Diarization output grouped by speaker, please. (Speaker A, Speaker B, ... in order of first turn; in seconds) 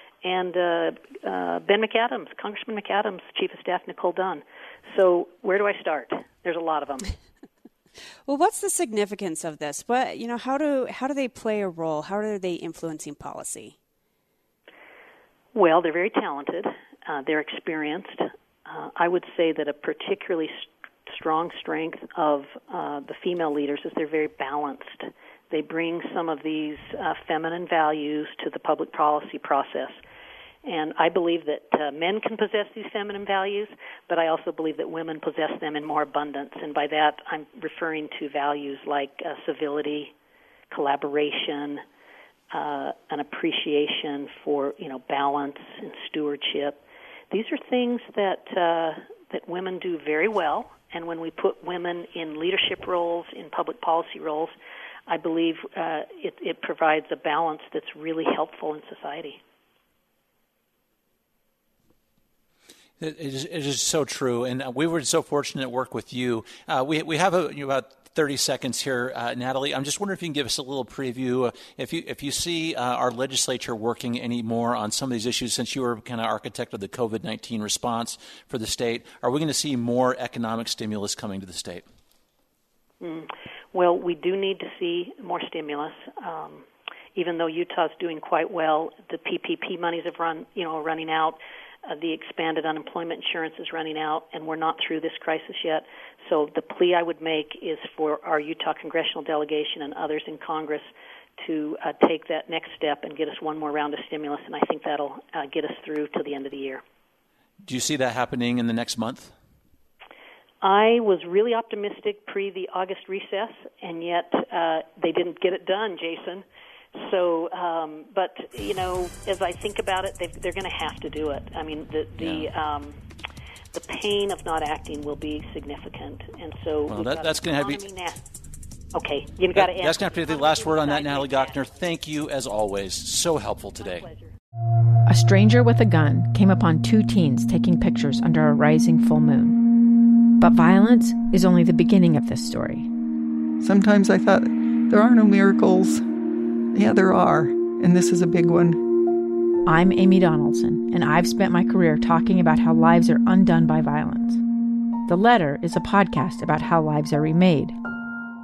Speaker A: 0.2-7.1, 15.5-30.0, 30.6-40.1, 40.7-41.8, 42.5-54.5, 55.1-59.4, 83.0-86.7, 87.2-100.9, 101.4-106.8, 110.6-116.4, 117.0-123.0, 123.7-128.2, 128.9-131.7, 133.8-134.3
Speaker B: 8.3-13.8
Speaker C: 63.0-81.8, 107.6-109.3, 122.2-122.5, 126.9-127.9, 129.5-134.1
Speaker D: 135.1-139.6, 140.4-142.9, 149.7-154.4, 155.1-157.8
Speaker E: 143.6-146.1, 146.7-148.8